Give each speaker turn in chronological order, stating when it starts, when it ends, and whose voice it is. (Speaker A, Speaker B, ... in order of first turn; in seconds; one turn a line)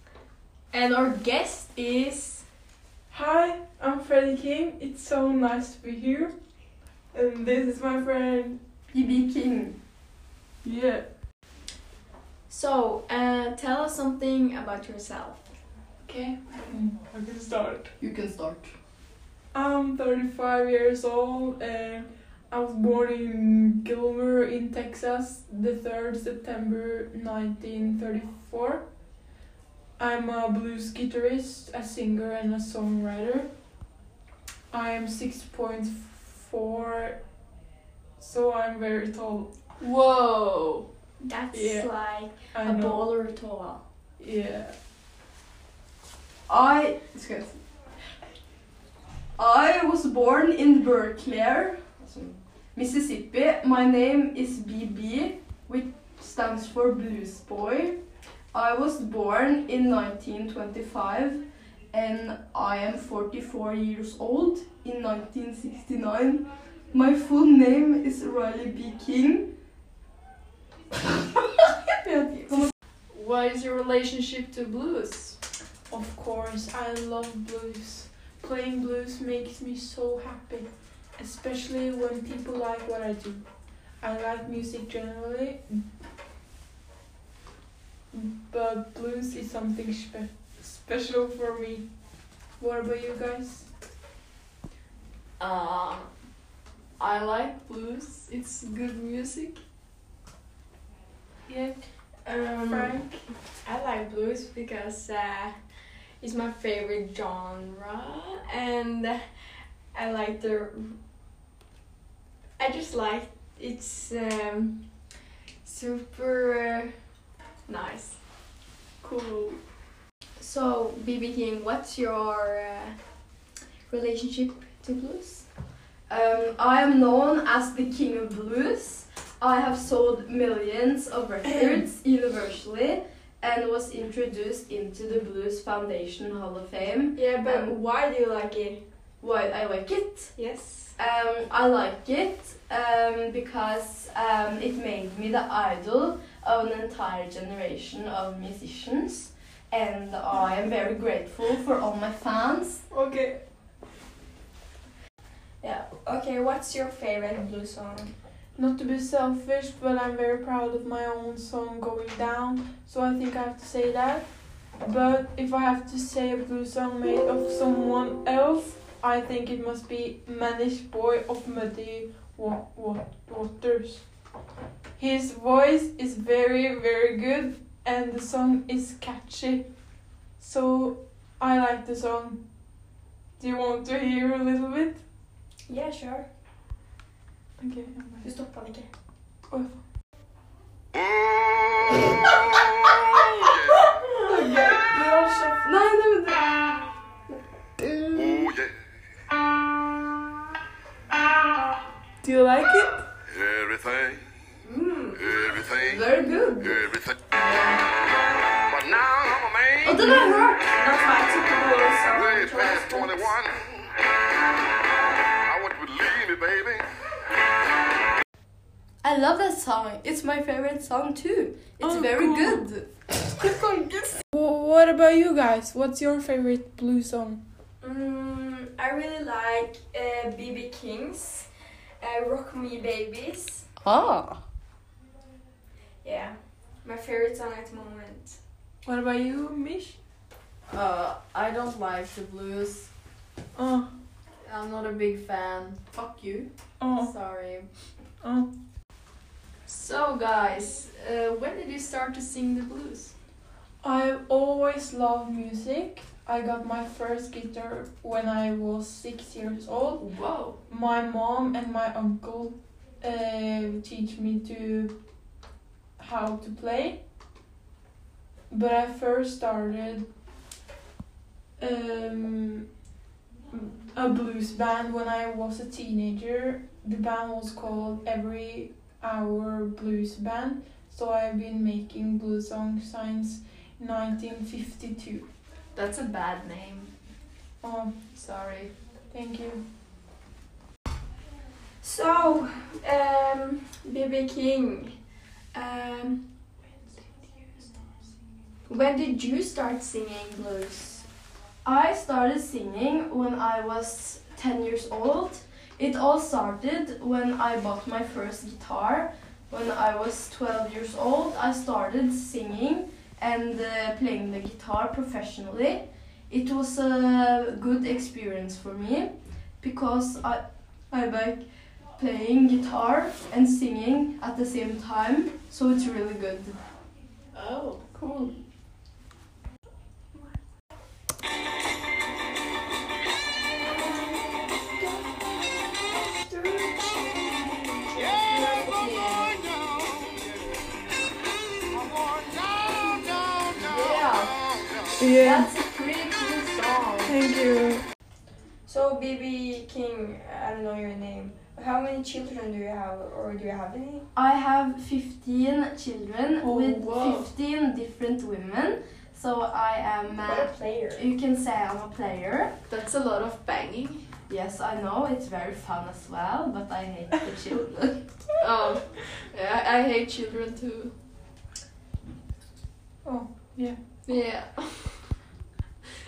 Speaker A: 0.7-2.5
Speaker B: 3.1-6.3
Speaker B: 7.1-8.6
Speaker C: 8.9-9.8
Speaker B: 10.6-11.0
Speaker A: 12.5-15.5
Speaker B: 16.0-17.9
Speaker C: 18.0-18.8
Speaker B: 19.5-28.8
Speaker B: 30.0-33.5
Speaker B: 34.7-37.2
Speaker B: 38.2-39.5
Speaker D: 39.8-40.9
Speaker A: 41.2-43.8
Speaker B: 41.5-41.9
Speaker B: 42.5-43.1
Speaker B: 44.2-44.7
Speaker C: 46.5-47.6
Speaker C: 49.4-58.0
Speaker C: 58.5-69.5
Speaker B: 72.0-72.7
Speaker D: 73.1-75.3
Speaker B: 75.9-83.4
Speaker B: 84.0-85.8
Speaker B: 88.1-91.9
Speaker B: 92.6-93.7
Speaker D: 95.4-96.1
Speaker D: 97.0-99.6
Speaker B: 101.5-101.8
Speaker A: 102.2-102.9
Speaker B: 102.7-103.2
Speaker A: 103.6-105.5
Speaker A: 106.2-109.2
Speaker A: 109.9-111.0
Speaker A: 112.6-114.8
Speaker A: 115.6-116.9
Speaker A: 117.7-118.2
Speaker A: 120.4-123.0
Speaker A: 123.9-125.4
Speaker C: 126.1-137.8
Speaker A: 137.1-138.8
Speaker C: 139.2-140.3
Speaker A: 140.3-140.9
Speaker C: 140.9-152.8
Speaker B: 152.9-153.4
Speaker A: 155.6-158.1
Speaker B: 158.6-164.3
Speaker B: 164.8-174.1
Speaker B: 175.0-179.7
Speaker B: 180.4-182.4
Speaker B: 183.4-185.0
Speaker A: 185.7-186.3
Speaker B: 187.6-188.3
Speaker A: 188.2-188.9
Speaker B: 189.5-189.8
Speaker E: 190.9-192.0
Speaker B: 194.2-195.7
Speaker C: 195.6-196.8
Speaker C: 198.0-198.5
Speaker E: 198.2-198.7
Speaker B: 202.2-202.9
Speaker E: 203.3-204.2
Speaker A: 204.6-205.3
Speaker E: 205.3-206.0
Speaker C: 205.8-207.8
Speaker E: 208.7-209.9
Speaker C: 209.8-210.7
Speaker A: 210.1-213.4
Speaker E: 212.4-213.7
Speaker E: 215.5-216.8
Speaker C: 219.0-222.9
Speaker B: 221.8-222.7
Speaker B: 224.3-227.4
Speaker A: 227.8-231.5
Speaker A: 232.0-233.7
Speaker C: 233.8-234.4
Speaker A: 236.0-238.4
Speaker B: 238.8-240.0
Speaker D: 240.7-242.9
Speaker B: 243.5-243.9
Speaker D: 244.4-247.7
Speaker B: 246.8-247.1
Speaker B: 248.2-248.5
Speaker D: 249.7-253.1
Speaker B: 253.8-260.0
Speaker D: 260.0-260.6
Speaker B: 260.7-264.9
Speaker B: 266.0-267.0
Speaker B: 268.5-270.1
Speaker B: 271.6-272.7
Speaker B: 273.5-285.3
Speaker D: 285.7-286.9
Speaker B: 287.6-288.1
Speaker D: 288.1-288.7
Speaker B: 289.1-289.6
Speaker A: 291.8-294.9
Speaker A: 295.5-296.3
Speaker A: 298.7-301.0
Speaker C: 301.6-321.4
Speaker C: 322.0-326.6
Speaker D: 327.3-327.8
Speaker B: 327.9-328.3
Speaker A: 333.6-339.4
Speaker D: 343.6-344.0
Speaker B: 345.0-345.5
Speaker C: 345.2-347.1
Speaker B: 347.0-347.8
Speaker A: 348.6-354.1
Speaker C: 354.1-362.6
Speaker B: 356.4-356.8
Speaker D: 356.7-357.3
Speaker A: 360.2-361.1
Speaker D: 362.7-364.1
Speaker C: 364.3-368.1
Speaker D: 368.4-370.9
Speaker B: 373.0-373.8
Speaker D: 374.1-375.0